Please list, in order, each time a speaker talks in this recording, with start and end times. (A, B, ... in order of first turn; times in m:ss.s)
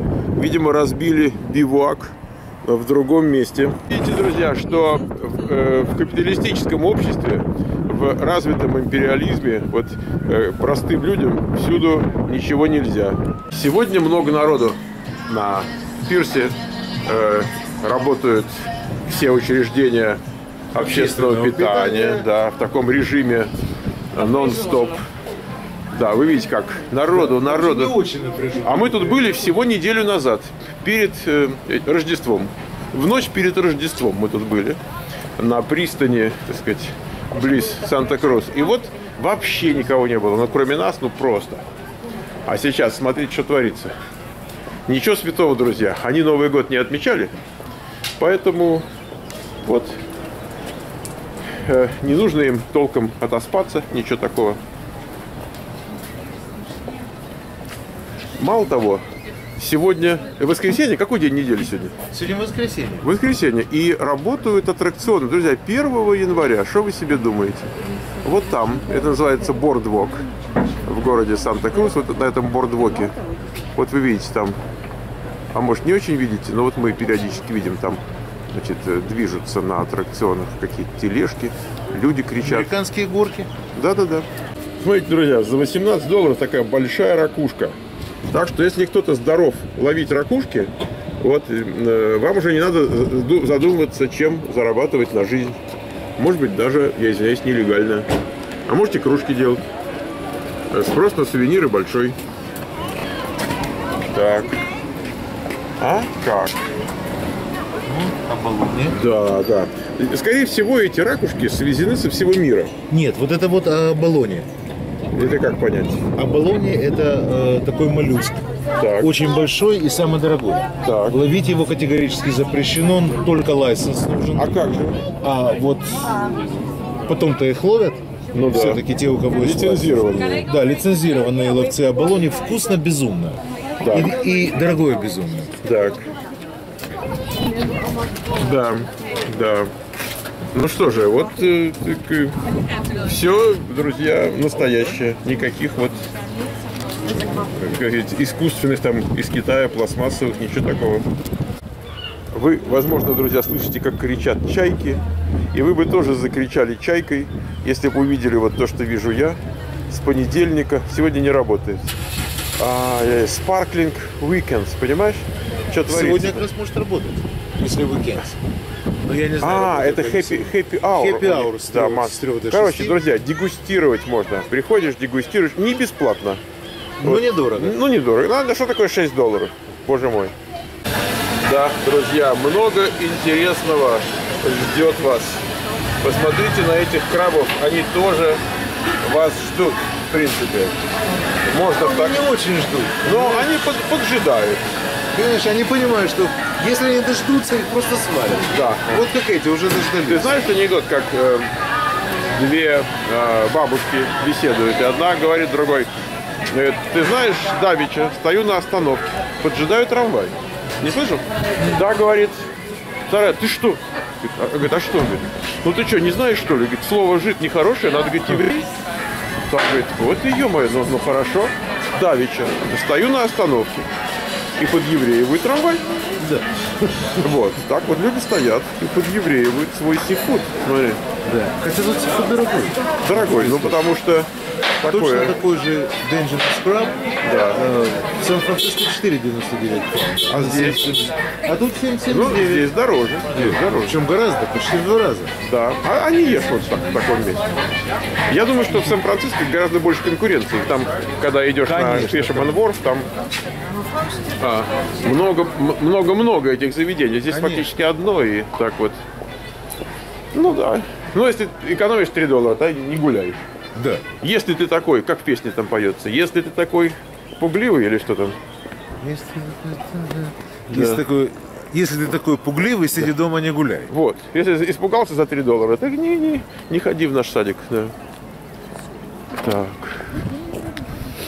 0:00.4-0:20.2 A
0:20.7-0:23.5 A
0:20.7-0:22.3 B
0:24.1-0:25.0 A
0:25.9-0:28.0 A
0:27.1-0:29.6 B
0:28.6-0:34.8 A
0:35.4-0:41.6 A
0:42.5-0:44.0 A
0:44.9-0:47.3 A
0:48.2-0:48.9 A
0:49.6-0:50.0 A
0:51.5-0:54.6 A
0:58.4-0:59.0 A
0:59.6-1:01.9 A
1:02.1-1:03.1 B
1:03.0-1:10.3 A
1:10.8-1:13.1 A
1:13.8-1:14.6 A
1:15.5-1:22.7 A
1:22.4-1:23.5 B
1:23.7-1:24.3 A
1:24.8-1:27.8 A
1:28.3-1:35.6 A
1:36.2-1:38.1 A
1:38.7-1:39.6 A
1:40.7-1:42.2 A
1:44.1-1:44.6 A
1:45.8-1:46.6 A
1:47.8-1:49.0 B
1:48.9-1:52.7 A
1:52.9-1:54.5 B
1:55.1-1:56.0 A
1:56.2-1:58.4 B
1:58.8-1:59.1 A
1:59.0-2:06.4 B
2:00.8-2:01.2 A
2:04.4-2:05.0 A
2:07.1-2:15.5 B
2:08.3-2:08.8 A
2:09.3-2:10.5 A
2:13.8-2:14.1 A
2:15.6-2:16.1 A
2:18.4-2:19.7 A
2:20.5-2:22.4 A
2:23.0-2:26.1 A
2:27.5-2:31.1 A
2:32.3-2:41.9 A
2:42.6-2:46.5 A
2:45.8-2:48.4 B
2:49.0-2:53.0 B
2:49.4-2:56.4 A
2:57.0-2:57.8 B
2:57.0-3:00.3 A
3:01.4-3:05.5 A
3:06.0-3:08.4 A
3:09.0-3:10.9 A
3:11.4-3:12.3 A
3:11.6-3:13.5 B
3:13.0-3:14.6 A
3:15.1-3:20.4 B
3:18.5-3:19.0 A
3:20.0-3:21.5 A
3:22.4-3:25.9 A
3:26.5-3:32.5 A
3:33.1-3:38.6 A
3:39.5-3:43.9 A
3:44.6-3:45.8 A
3:46.2-3:47.3 B
3:47.2-3:51.0 A
3:51.2-3:53.8 B
3:53.0-3:55.4 A
3:54.9-3:57.0 B
3:57.2-3:57.6 A
3:57.5-4:02.7 B
4:00.3-4:00.9 A
4:02.1-4:04.0 A
4:03.3-4:05.3 B
4:05.5-4:07.5 A
4:08.3-4:13.1 A
4:11.7-4:12.6 B
4:14.4-4:19.0 A
4:17.3-4:17.7 B
4:20.3-4:23.4 A
4:23.8-4:24.0 B
4:24.2-4:28.4 A
4:29.0-4:33.9 B
4:30.7-4:31.0 A
4:33.9-4:37.9 A
4:39.4-4:40.2 A